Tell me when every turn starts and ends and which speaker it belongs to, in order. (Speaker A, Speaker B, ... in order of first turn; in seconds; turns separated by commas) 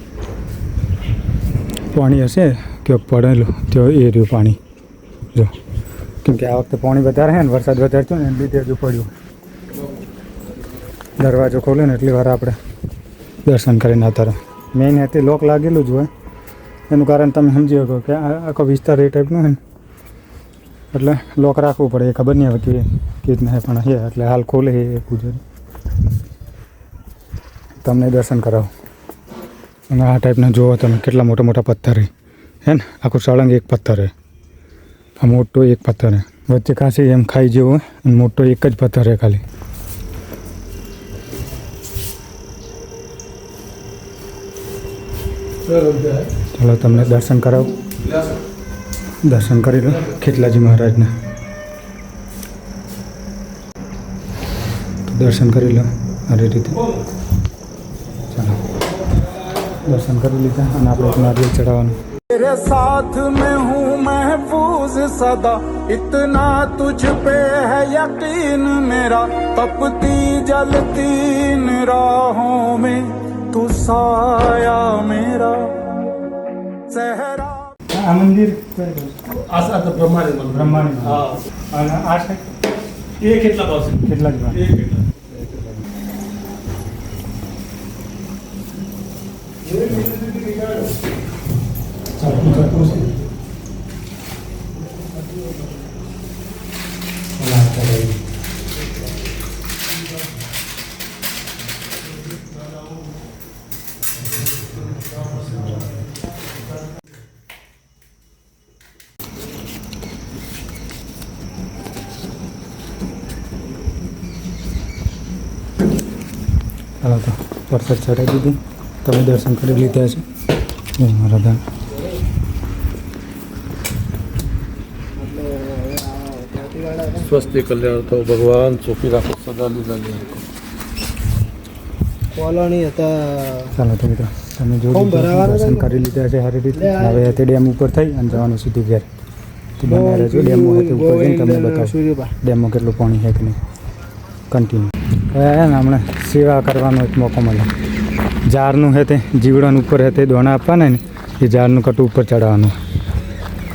Speaker A: 1.9-4.6, Speaker A: 6.2-9.1, Speaker A: 11.2-12.6, Speaker A: 13.4-16.1, Speaker A: 16.9-19.6, Speaker A: 20.9-25.4, Speaker A: 27.8-28.7, Speaker A: 29.9-32.1, Speaker A: 32.6-34.1, Speaker A: 35.2-39.4, Speaker A: 46.4-47.8, Speaker A: 49.2-51.1, Speaker A: 55.0-56.9, Speaker A: 58.3-58.6, Speaker A: 59.8-62.0, Speaker B: 62.3-76.0, Speaker B: 76.9-77.7, Speaker A: 77.9-79.4, Speaker C: 79.5-80.3, Speaker A: 80.3-82.4, Speaker C: 83.2-83.8, Speaker A: 83.8-84.9, Speaker A: 89.8-90.2, Speaker A: 92.2-93.1, Speaker A: 97.3-98.2, Speaker A: 105.1-105.8, Speaker A: 117.0-120.2, Speaker A: 121.0-121.6, Speaker D: 125.1-127.6, Speaker C: 127.4-130.4, Speaker D: 132.3-133.7, Speaker A: 133.7-139.1, Speaker D: 134.9-135.8, Speaker D: 136.8-137.1, Speaker A: 139.8-143.6, Speaker D: 139.9-142.3, Speaker A: 144.5-147.7, Speaker A: 148.4-152.7